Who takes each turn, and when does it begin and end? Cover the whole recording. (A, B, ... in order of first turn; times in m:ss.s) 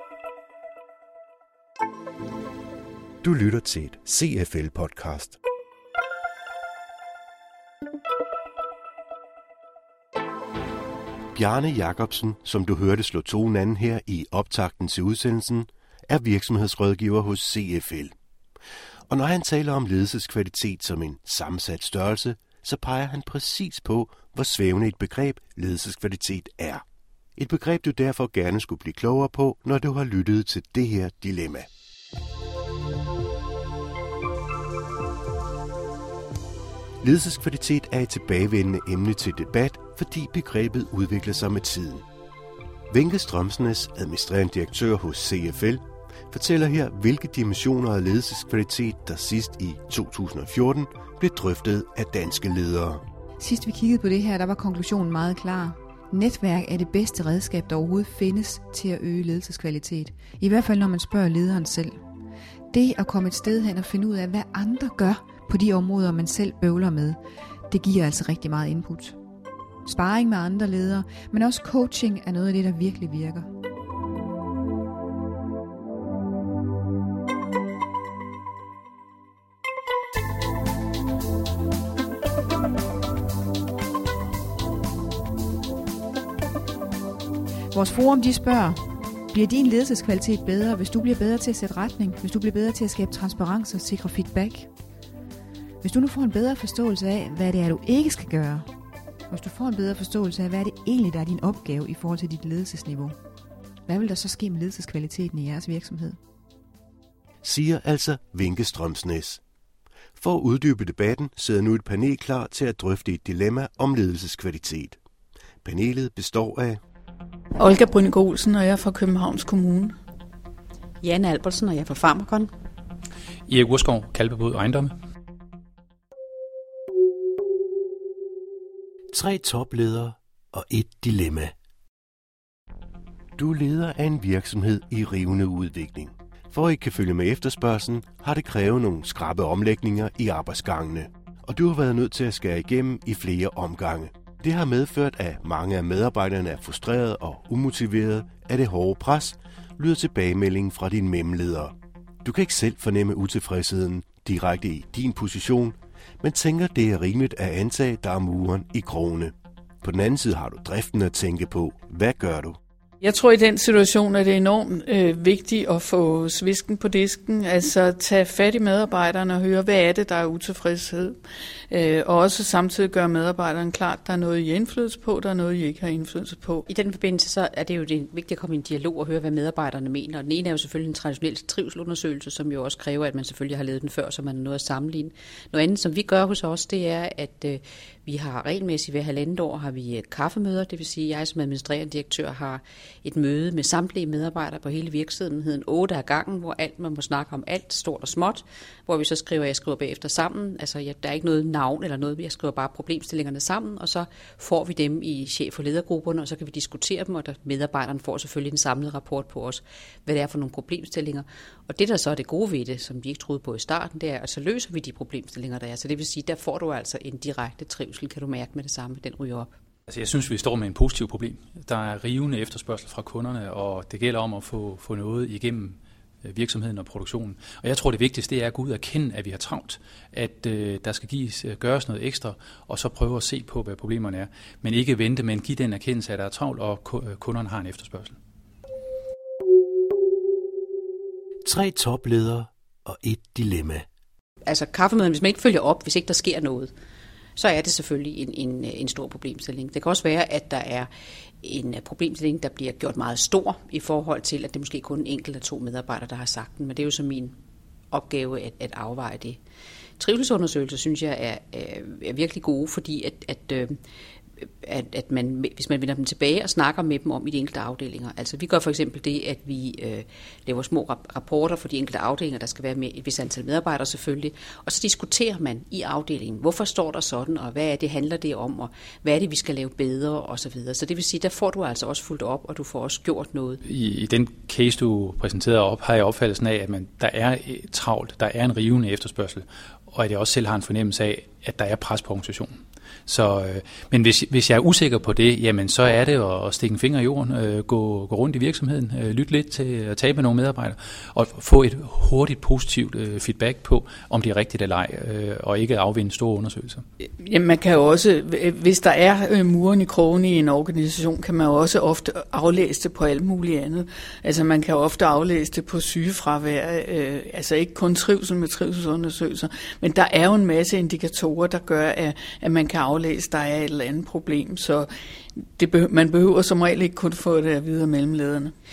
0:03.2-0:05.4 A
0:11.4-0:18.1 A
0:19.1-0:26.8 A
0:27.4-0:31.7 A
0:37.0-0:42.0 A
0:42.9-0:53.0 A
0:53.4-1:02.0 B
1:02.7-1:07.2 B
1:07.7-1:09.2 B
1:09.9-1:13.5 B
1:27.7-1:28.8 B
1:29.3-1:34.7 B
1:35.8-1:38.7 B
1:39.3-1:43.2 B
1:43.9-1:46.2 B
1:47.4-1:49.4 A
1:50.2-1:55.0 A
1:55.6-1:56.8 A
1:57.6-2:00.0 C
2:01.0-2:02.5 D
2:03.5-2:04.9 E
2:09.1-2:11.5 A
2:13.4-2:42.6 A
2:43.0-2:51.2 C
2:51.7-2:56.6 C
2:56.6-3:39.5 D
3:39.9-3:58.2 E
4:01.4-4:03.9 A
4:04.5-4:06.7 D
4:07.4-4:10.9 D
4:11.4-4:17.4 D
4:17.9-4:19.4 D
4:20.0-4:23.8 D
4:24.4-4:43.6 D
4:43.6-4:52.5 E
4:53.1-5:06.8 E
5:07.2-5:24.9 C
5:25.6-5:28.5 C